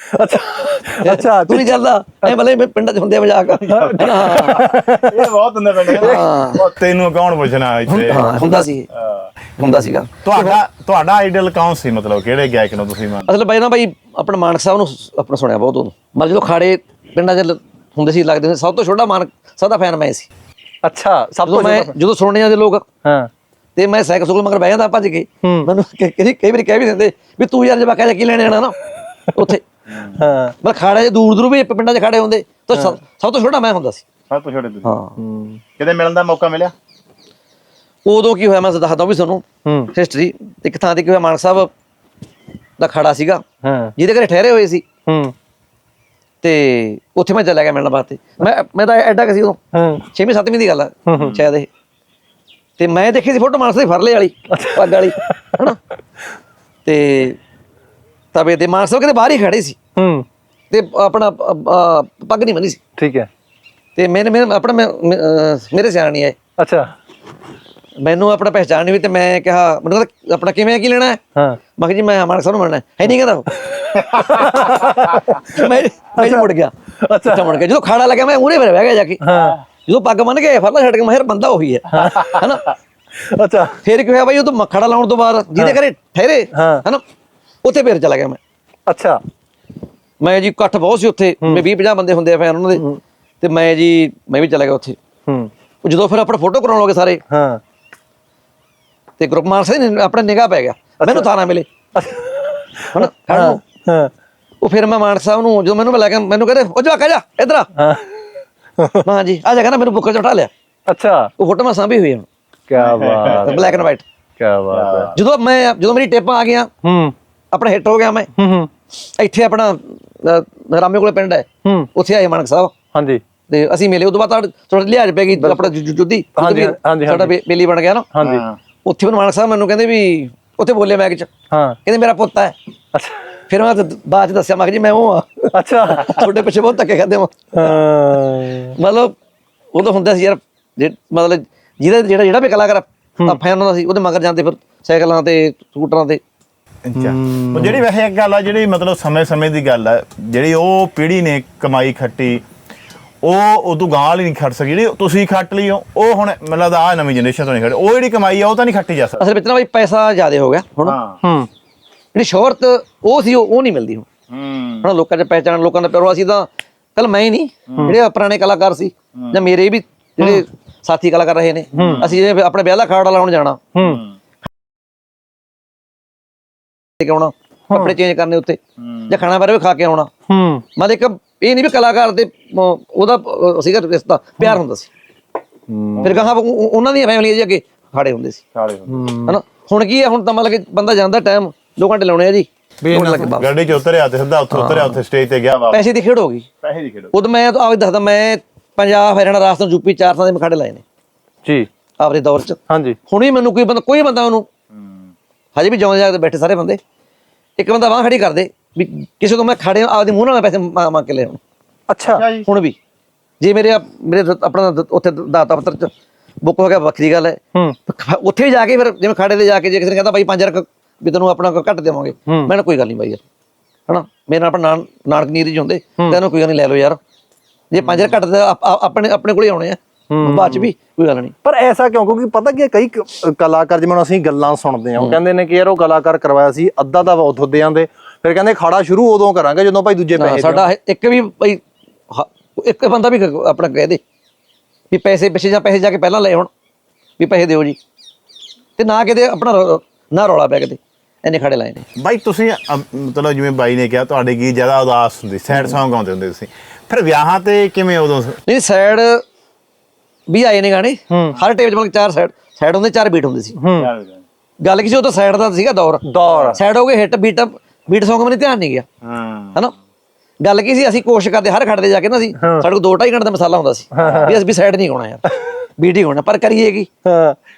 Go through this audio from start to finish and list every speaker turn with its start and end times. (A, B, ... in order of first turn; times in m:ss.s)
0:00.1-0:02.4 A
0:01.0-0:04.7 B
0:03.7-0:05.2 A
0:03.8-0:09.3 C
0:05.9-0:06.3 A
0:06.0-0:06.6 B
0:07.9-0:08.9 B
0:09.6-0:10.1 B
0:09.6-0:10.6 A
0:10.2-0:13.3 C
0:13.2-0:20.3 B
0:20.8-0:21.9 A
0:21.4-0:22.8 B
0:23.8-0:28.8 B
0:25.4-0:25.7 A
0:29.3-0:29.6 B
0:29.9-0:30.2 C
0:30.1-0:30.5 A
0:30.6-0:34.0 B
0:34.3-0:34.9 C
0:34.8-0:35.1 B
0:35.2-0:35.6 A
0:35.8-0:36.7 C
0:38.0-0:41.7 B
0:39.6-0:39.9 A
0:42.8-0:43.4 B
0:43.6-0:43.9 A
0:44.0-0:44.8 B
0:45.1-0:45.3 A
0:46.4-0:49.6 B
0:49.7-0:50.0 A
0:50.1-0:51.7 B
0:51.1-0:51.4 A
0:52.8-0:55.8 B
0:54.5-0:55.6 A
0:56.8-0:57.4 B
0:58.3-0:59.8 B
1:00.0-1:00.2 A
1:00.7-1:02.8 B
1:03.0-1:03.3 A
1:04.0-1:06.4 B
1:06.6-1:06.9 A
1:08.0-1:11.2 B
1:11.8-1:13.6 B
1:13.6-1:17.6 A
1:14.4-1:16.7 B
1:17.2-1:22.7 B
1:19.2-1:19.6 A
1:21.9-1:22.5 A
1:23.2-1:23.8 A
1:23.8-1:27.0 B
1:26.5-1:26.8 A
1:27.6-1:28.4 B
1:28.9-1:29.2 A
1:30.2-1:32.8 B
1:33.4-1:35.0 B
1:35.8-1:37.2 B
1:37.3-1:37.6 A
1:39.2-1:41.7 B
1:41.0-1:41.3 A
1:41.9-1:44.1 A
1:42.9-1:43.6 B
1:44.6-1:47.7 B
1:47.8-1:49.0 A
1:49.0-1:50.5 B
1:50.9-1:51.3 A
1:51.4-1:52.2 B
1:52.7-1:53.8 A
1:52.8-1:53.6 C
1:53.3-1:54.0 B
1:54.4-1:55.1 A
1:54.7-1:55.2 C
1:55.1-1:56.7 B
1:56.8-1:57.1 A
1:57.5-1:58.3 B
1:58.4-1:58.7 A
1:59.0-2:02.7 B
2:02.9-2:03.2 A
2:03.5-2:08.1 B
2:05.4-2:05.7 A
2:06.4-2:07.3 A
2:08.1-2:08.4 A
2:08.2-2:08.6 C
2:08.8-2:11.3 B
2:11.5-2:11.8 A
2:11.8-2:12.5 B
2:12.9-2:13.4 A
2:13.5-2:17.7 B
2:15.5-2:16.3 A
2:17.5-2:18.7 A
2:18.7-2:19.1 B
2:19.7-2:26.2 B
2:26.8-2:32.4 C
2:27.0-2:27.8 A
2:33.2-2:39.2 C
2:39.2-2:41.0 B
2:40.8-2:41.2 C
2:41.2-2:41.5 A
2:42.1-2:44.1 B
2:44.3-2:44.9 C
2:44.8-2:53.6 B
2:47.7-2:47.9 C
2:49.2-2:49.4 C
2:51.7-2:52.1 A
2:53.7-2:54.0 A
2:53.8-2:54.1 C
2:57.0-3:00.1 B
2:57.7-2:58.0 A
2:58.8-2:59.2 C
3:00.3-3:00.6 A
3:00.8-3:04.9 B
3:05.7-3:06.1 A
3:06.0-3:06.3 C
3:06.0-3:08.4 B
3:08.5-3:09.1 C
3:08.9-3:09.4 A
3:09.2-3:13.5 B
3:12.8-3:13.3 A
3:13.1-3:15.8 C
3:14.5-3:15.0 B
3:15.7-3:16.5 B
3:16.6-3:17.1 C
3:17.1-3:20.8 B
3:22.0-3:24.5 B
3:22.7-3:23.0 A
3:25.5-3:26.8 B
3:27.6-3:31.4 B
3:31.9-3:32.2 A
3:32.1-3:32.5 C
3:32.4-3:32.8 B
3:33.4-3:35.9 B
3:36.4-3:43.2 B
3:43.9-3:47.0 B
3:47.7-3:51.3 B
3:47.8-3:48.1 A
3:50.1-3:50.7 A
3:51.4-4:00.6 A
4:00.2-4:04.0 B
4:04.9-4:06.5 B
4:07.2-4:07.8 B
4:08.8-4:11.8 B
4:12.0-4:18.4 C
4:18.4-4:19.2 B
4:20.3-4:23.6 B
4:21.1-4:21.4 A
4:23.6-4:23.9 A
4:23.8-4:24.2 C
4:24.6-4:28.9 B
4:26.1-4:26.6 A
4:26.3-4:26.6 C
4:29.0-4:29.6 C
4:30.4-4:35.2 B
4:32.4-4:32.6 A
4:33.9-4:34.4 A
4:35.8-4:36.9 B
4:37.0-4:37.4 A